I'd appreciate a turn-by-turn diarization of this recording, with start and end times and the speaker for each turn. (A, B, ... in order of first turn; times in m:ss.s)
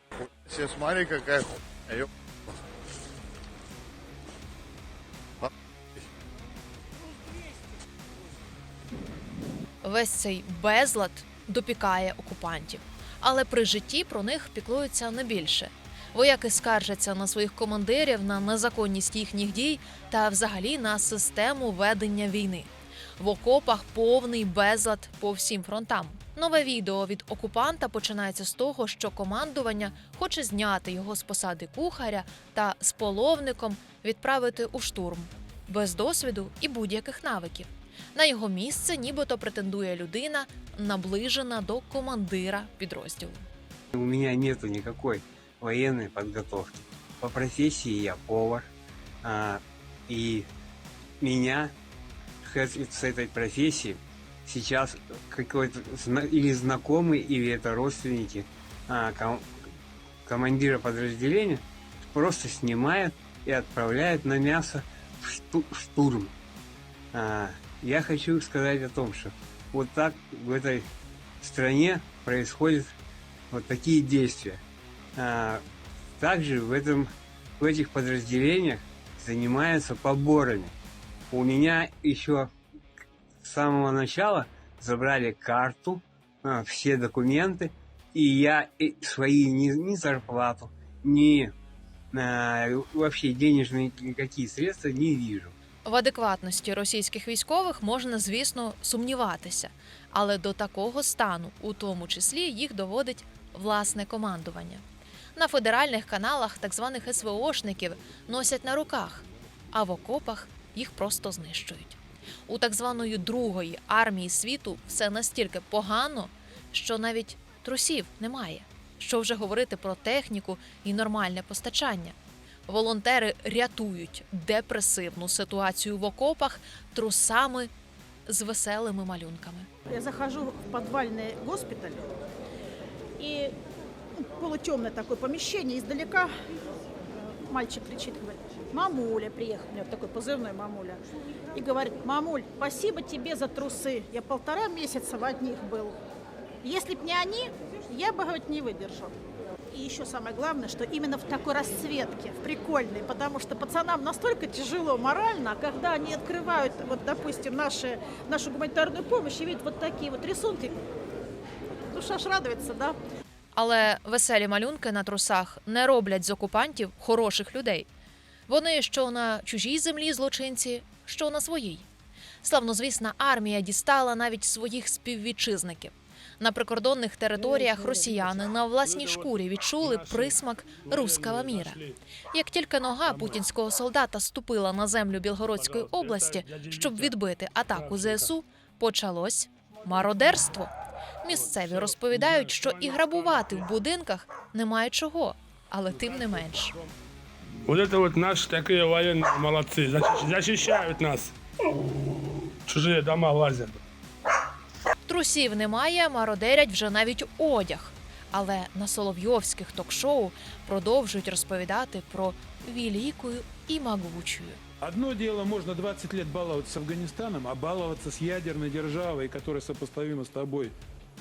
0:09.8-0:43.4 A
0:43.9-0:48.7 B
0:49.2-0:50.5 B
0:51.2-0:51.7 B
0:52.4-0:59.5 B
1:00.2-1:06.3 B
1:07.1-1:12.9 B
1:13.5-1:14.6 B
1:15.1-1:15.6 B
1:16.2-1:20.7 B
1:21.3-1:22.5 B
1:23.4-1:31.5 B
1:32.1-1:35.5 B
1:35.8-1:44.8 A
1:45.4-2:02.1 A
2:02.7-2:07.7 A
2:08.3-2:09.7 A
2:09.9-2:12.1 C
2:13.2-2:13.5 C
2:14.2-2:16.3 C
2:17.2-2:21.0 C
2:21.5-2:26.0 C
2:26.6-2:29.1 C
2:29.7-2:40.7 C
2:41.9-2:43.0 C
2:43.5-2:47.9 A
2:48.5-2:51.8 A
2:52.4-3:10.7 A
2:58.8-3:02.0 D
3:03.0-3:03.4 D
3:05.5-3:07.2 D
3:07.7-3:08.3 D
3:11.2-3:16.8 A
3:11.3-3:13.7 D
3:15.9-3:16.9 D
3:17.6-3:21.3 D
3:22.6-3:23.8 D
3:25.0-3:34.6 A
3:34.8-3:40.7 E